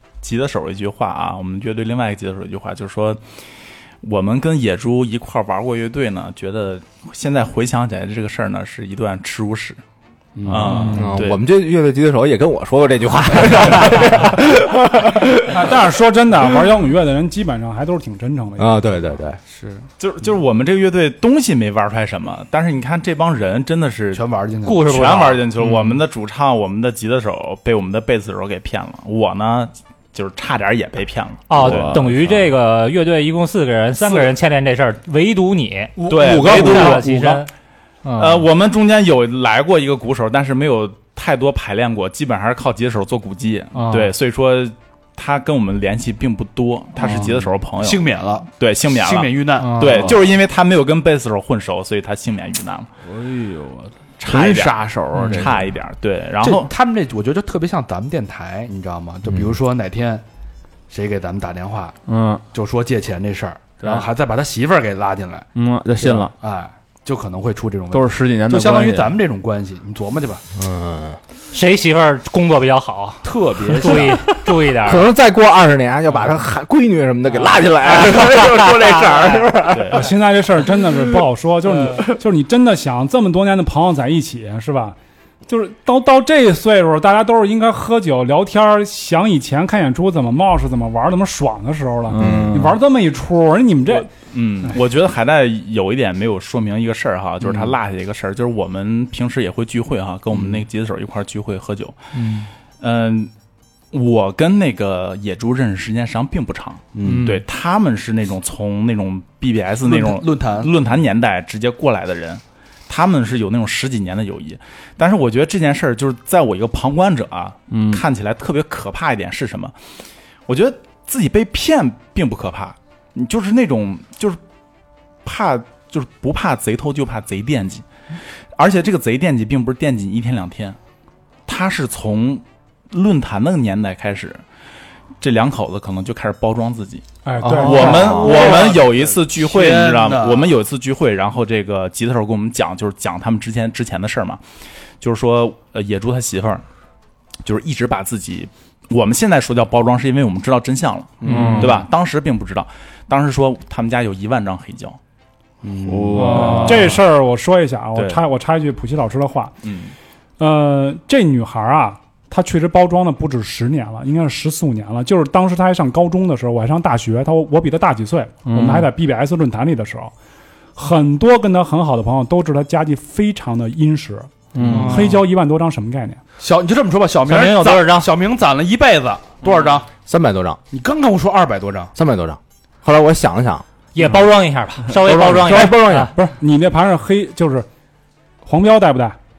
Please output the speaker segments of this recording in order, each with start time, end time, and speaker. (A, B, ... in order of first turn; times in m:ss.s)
0:00.2-0:03.2 A
0:04.0-0:09.8 A
0:10.4-0:11.0 B
0:10.5-0:11.4 A
0:10.8-0:15.4 C
0:15.5-0:18.9 D
0:18.6-0:19.4 C
0:19.5-0:19.9 B
0:20.0-0:24.3 A
0:24.1-0:25.1 B
0:24.6-0:25.5 E
0:24.8-0:32.1 A
0:25.6-0:26.0 F
0:31.5-0:37.5 E
0:31.5-0:32.4 F
0:36.1-0:37.1 A
0:38.0-0:38.5 E
0:38.2-0:52.9 A
0:43.7-0:44.1 E
0:47.0-0:50.3 B
0:49.6-0:50.1 E
0:53.0-0:55.7 F
0:54.2-0:56.7 A
0:56.4-1:00.2 B
1:00.9-1:02.0 B
1:02.1-1:02.4 F
1:02.5-1:10.4 B
1:03.8-1:04.1 F
1:05.6-1:06.3 F
1:07.9-1:09.2 F
1:10.6-1:11.2 C
1:11.5-1:15.1 E
1:13.2-1:14.3 B
1:14.8-1:20.1 C
1:17.4-1:19.5 E
1:19.7-1:20.1 A
1:19.9-1:25.0 D
1:25.5-1:34.1 D
1:32.1-1:32.8 F
1:32.2-1:32.5 C
1:33.9-1:42.1 A
1:37.4-1:37.8 B
1:40.3-1:40.6 B
1:42.8-1:43.3 A
1:43.9-1:59.7 A
1:46.9-1:47.4 B
1:47.0-1:47.4 F
1:49.8-1:50.7 B
1:57.7-1:58.0 F
2:00.5-2:04.4 A
2:05.2-2:07.9 A
2:08.6-2:10.8 A
2:11.5-2:14.4 A
2:15.2-2:24.4 A
2:17.2-2:18.5 D
2:17.4-2:18.6 C
2:17.6-2:20.6 B
2:25.0-2:26.6 A
2:27.4-2:35.0 A
2:31.2-2:31.8 B
2:31.3-2:31.8 F
2:31.3-2:31.6 E
2:35.6-2:36.9 B
2:35.9-2:37.0 F
2:36.2-2:39.6 D
2:38.0-2:38.2 A
2:39.6-2:39.9 A
2:40.4-2:50.1 D
2:48.5-2:48.9 F
2:50.8-2:56.2 D
2:54.5-2:55.2 F
2:54.7-2:55.2 E
2:56.4-2:59.9 B
2:57.2-2:58.1 E
3:00.1-3:00.6 C
3:00.7-3:01.9 B
3:02.0-3:03.6 C
3:03.9-3:06.1 E
3:04.9-3:06.1 C
3:05.5-3:07.7 D
3:08.4-3:09.2 D